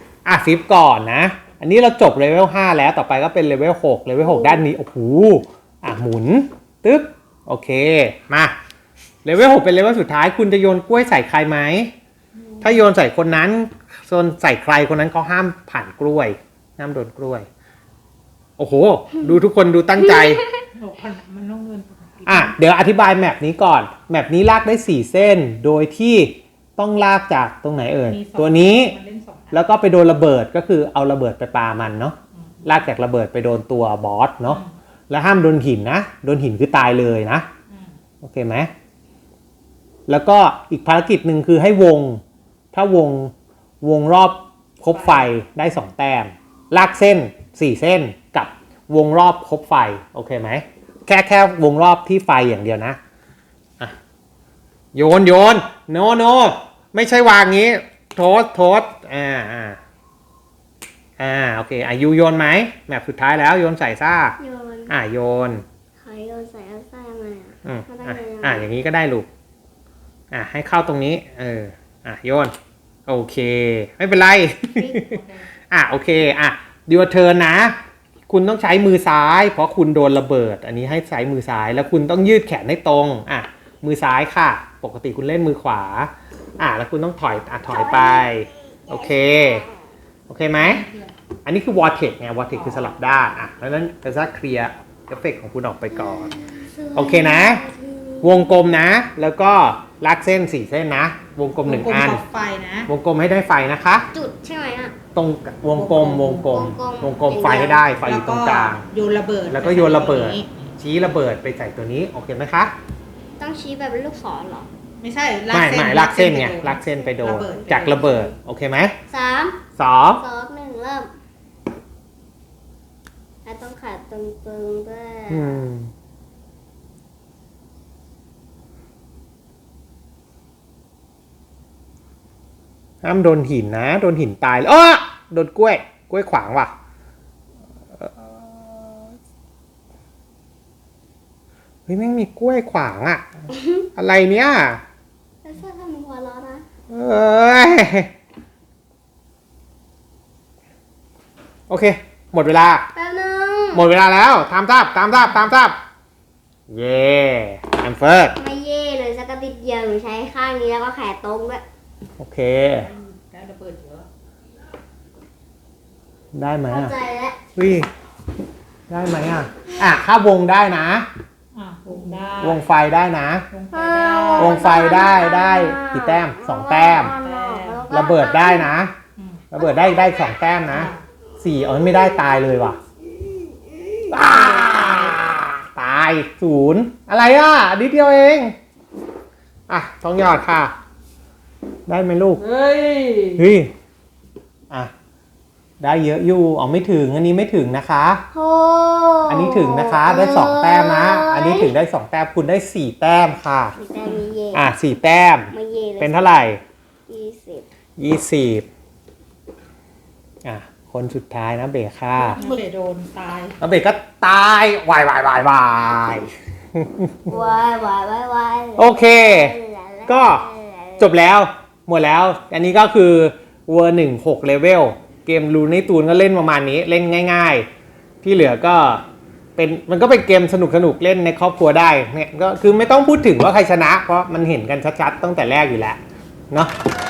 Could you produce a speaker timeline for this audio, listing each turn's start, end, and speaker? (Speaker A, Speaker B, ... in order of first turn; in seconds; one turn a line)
Speaker A: 0.2-8.6
Speaker B: 4.2-4.6
Speaker A: 9.2-11.9
Speaker C: 12.3-12.9
Speaker A: 12.6-17.5
Speaker A: 18.6-20.4
Speaker B: 20.0-20.6
Speaker C: 20.8-22.6
Speaker A: 22.3-28.9
Speaker C: 28.1-29.7
Speaker A: 29.5-37.5
Speaker C: 32.3-32.9
Speaker C: 34.5-34.7
Speaker C: 37.7-38.0
Speaker A: 38.2-38.7
Speaker A: 40.1-42.2
Speaker A: 42.7-53.0
Speaker C: 44.9-45.3
Speaker A: 54.9-59.8
Speaker A: 61.2-64.4
Speaker B: 64.4-64.9
Speaker A: 64.9-65.7
Speaker B: 66.0-68.7
Speaker A: 67.7-69.3
Speaker A: 70.3-72.5
Speaker A: 73.1-75.2
Speaker B: 74.8-75.2
Speaker C: 75.0-75.4
Speaker A: 75.7-77.8
Speaker A: 78.3-89.7
Speaker B: 87.7-89.8
Speaker A: 90.3-90.8
Speaker C: 90.6-91.1
Speaker A: 91.5-96.4
Speaker C: 92.5-92.9
Speaker B: 95.9-98.6
Speaker A: 96.9-97.7
Speaker A: 98.2-102.2
Speaker C: 101.6-102.9
Speaker A: 102.9-104.1
Speaker B: 104.1-105.0
Speaker A: 105.2-108.8
Speaker C: 105.8-106.6
Speaker B: 106.5-107.8
Speaker C: 107.8-110.7
Speaker A: 109.5-112.7
Speaker B: 113.4-114.7
Speaker C: 115.0-118.2
Speaker A: 115.5-119.0
Speaker B: 117.2-118.3
Speaker B: 119.1-119.6
Speaker A: 119.8-120.2
Speaker B: 120.2-121.1
Speaker B: 123.5-125.6
Speaker A: 125.3-125.9
Speaker A: 133.0-136.7
Speaker A: 138.0-139.1
Speaker A: 141.9-144.8
Speaker B: 145.4-146.7
Speaker A: 146.9-148.1
Speaker A: 151.7-152.9
Speaker B: 152.9-153.9
Speaker A: 153.7-155.8
Speaker A: 156.7-158.4
Speaker B: 158.4-161.6
Speaker A: 162.2-162.9
Speaker C: 162.8-164.1
Speaker A: 166.3-166.9
Speaker B: 166.7-167.4
Speaker A: 167.6-167.9
Speaker A: 168.9-171.1
Speaker C: 171.5-172.7
Speaker A: 172.4-173.5
Speaker C: 173.5-174.8
Speaker B: 173.7-178.7
Speaker A: 174.4-177.2
Speaker C: 177.1-177.9
Speaker A: 177.9-179.0
Speaker C: 179.2-179.4
Speaker A: 179.5-182.8
Speaker B: 179.6-180.2
Speaker C: 180.7-181.1
Speaker A: 184.1-188.6
Speaker C: 184.2-185.2
Speaker A: 189.7-190.7
Speaker A: 191.9-192.4
Speaker C: 192.4-193.4
Speaker A: 193.4-193.7
Speaker A: 195.8-198.2
Speaker B: 198.3-201.7
Speaker A: 199.3-203.8
Speaker B: 203.8-204.7
Speaker A: 204.5-206.6
Speaker B: 205.5-206.4
Speaker B: 207.1-207.7
Speaker A: 208.0-208.7
Speaker A: 210.4-212.4
Speaker C: 212.2-213.6
Speaker B: 212.3-212.6
Speaker A: 213.6-217.3
Speaker B: 217.3-221.1
Speaker A: 218.8-219.6
Speaker A: 220.1-220.4
Speaker A: 221.0-227.7
Speaker A: 228.2-229.0
Speaker A: 229.6-236.0